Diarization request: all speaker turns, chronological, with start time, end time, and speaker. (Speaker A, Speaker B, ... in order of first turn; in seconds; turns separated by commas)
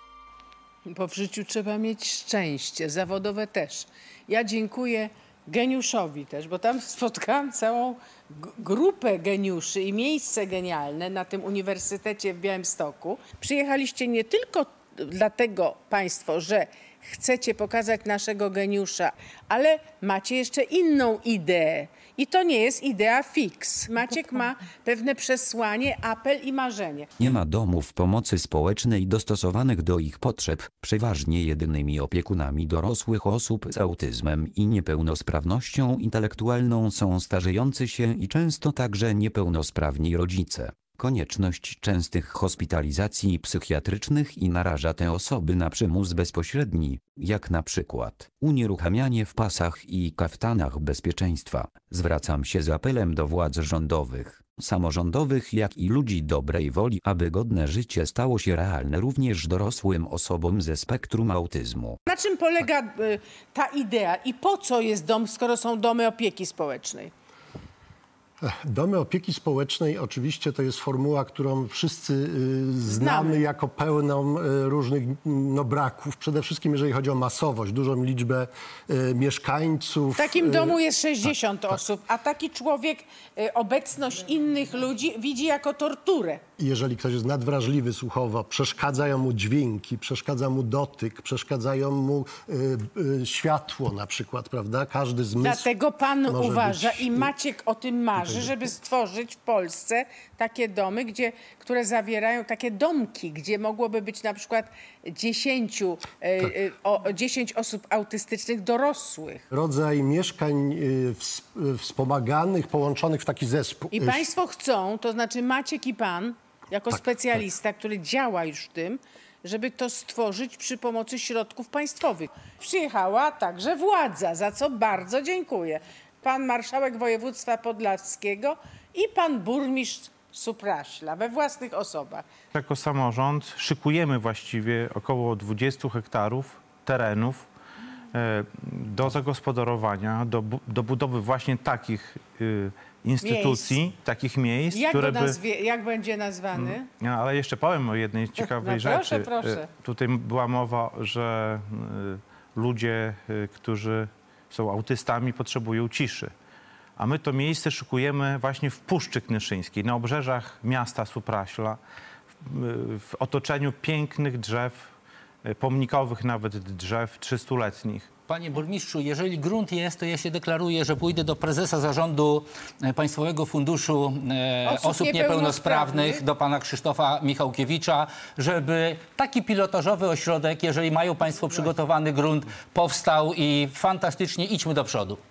Speaker A: 0.8-27.1, Speaker B: 27.2-62.0, Speaker A: 62.0-67.1, Speaker C: 68.4-80.8, Speaker A: 72.9-73.4, Speaker A: 80.2-86.4, Speaker C: 86.6-95.7, Speaker A: 95.4-109.4, Speaker C: 96.2-97.3, Speaker C: 98.2-98.5, Speaker C: 109.5-114.3, Speaker A: 113.9-132.2, Speaker D: 132.5-137.5, Speaker D: 138.1-145.4, Speaker A: 143.2-143.8, Speaker A: 144.7-146.9, Speaker D: 146.6-156.3, Speaker A: 148.4-149.7, Speaker D: 157.0-161.8, Speaker D: 162.4-168.1, Speaker E: 168.2-185.2, Speaker A: 174.7-176.2